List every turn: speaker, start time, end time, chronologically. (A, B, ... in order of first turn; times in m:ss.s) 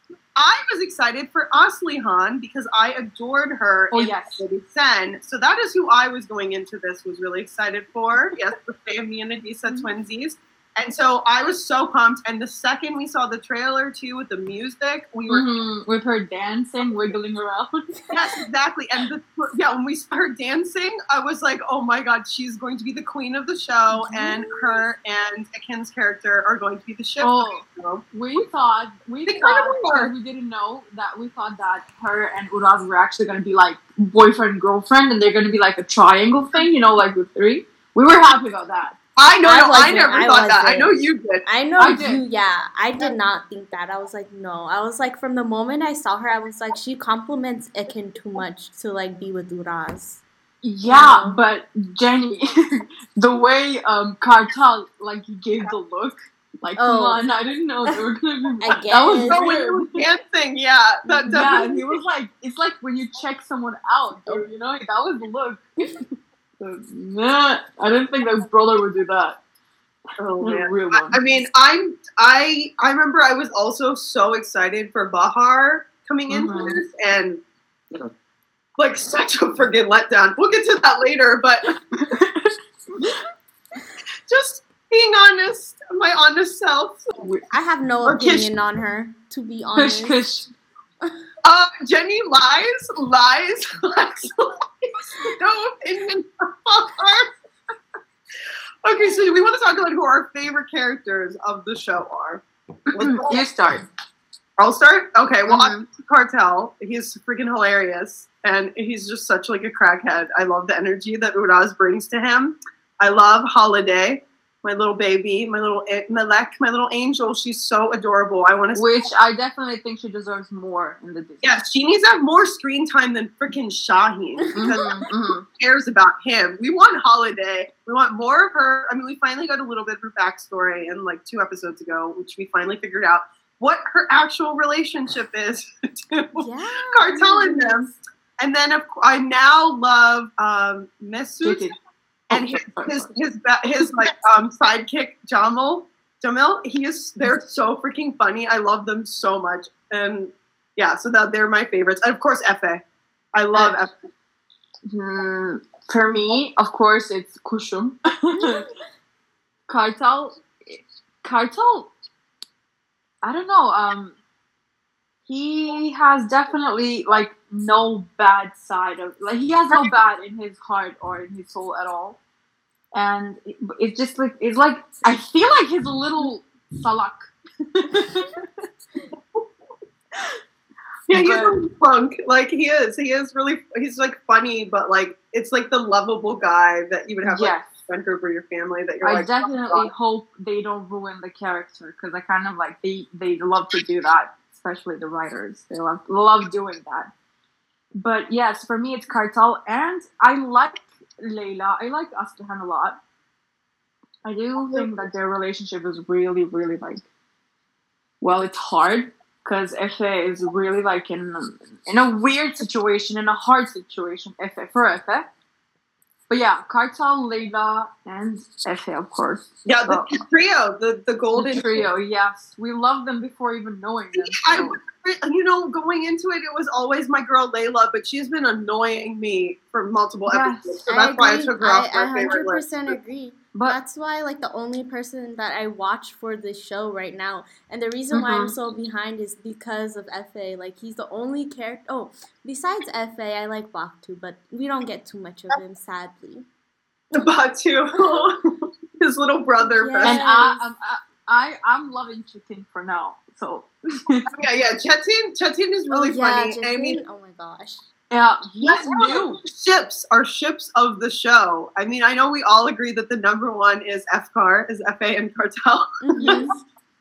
0:00.4-0:15.4 A
0:03.9-0:04.4 B
0:15.3-0:17.8 B
0:18.1-0:28.0 A
0:24.0-0:24.8 C
0:27.2-0:39.0 B
0:29.3-0:30.1 A
0:39.2-0:41.4 A
0:39.4-0:50.2 C
0:41.8-0:42.2 B
0:50.6-1:00.0 B
0:50.9-0:51.4 C
0:56.8-0:57.2 C
0:58.6-0:59.4 C
0:59.2-1:01.9 A
1:01.1-1:01.4 C
1:01.3-1:06.0 B
1:06.6-1:09.4 B
1:10.2-1:17.4 A
1:10.4-1:11.2 B
1:16.3-1:16.8 B
1:18.8-1:21.7 A
1:21.9-1:23.2 B
1:24.3-1:27.1 A
1:27.5-1:30.2 C
1:28.0-1:28.5 A
1:29.7-1:30.5 B
1:31.4-1:37.4 A
1:38.8-1:43.5 A
1:39.0-1:39.3 C
1:42.9-1:43.8 B
1:44.6-1:58.9 A
1:45.4-1:45.8 B
1:58.7-2:01.6 B
2:01.4-2:04.9 A
2:04.5-2:04.8 C
2:04.5-2:05.4 B
2:05.6-2:21.6 A
2:16.4-2:18.0 C
2:21.4-2:21.7 B
2:22.3-2:23.1 B
2:22.3-2:32.8 A
2:33.3-2:33.9 A
2:34.9-2:38.6 B
2:38.3-2:38.8 C
2:39.7-2:41.9 B
2:43.2-2:44.2 B
2:45.3-2:52.2 B
2:52.9-2:58.4 B
3:01.1-3:09.9 A
3:01.1-3:01.6 B
3:07.2-3:07.7 B
3:09.0-3:17.1 B
3:18.0-3:23.0 B
3:24.2-3:27.0 B
3:28.2-3:35.3 B
3:36.3-3:40.1 B
3:39.6-3:41.8 A
3:41.4-3:44.8 B
3:44.3-3:52.6 A
3:50.3-3:50.8 B
3:50.9-4:06.5 C
3:58.1-3:58.5 B
4:07.1-4:10.2 A
4:09.7-4:10.7 C
4:10.0-4:14.3 B
4:14.3-4:17.0 A
4:15.9-4:17.8 C
4:18.1-4:19.4 B
4:18.6-4:26.4 A
4:26.0-4:26.6 C
4:26.2-4:26.6 B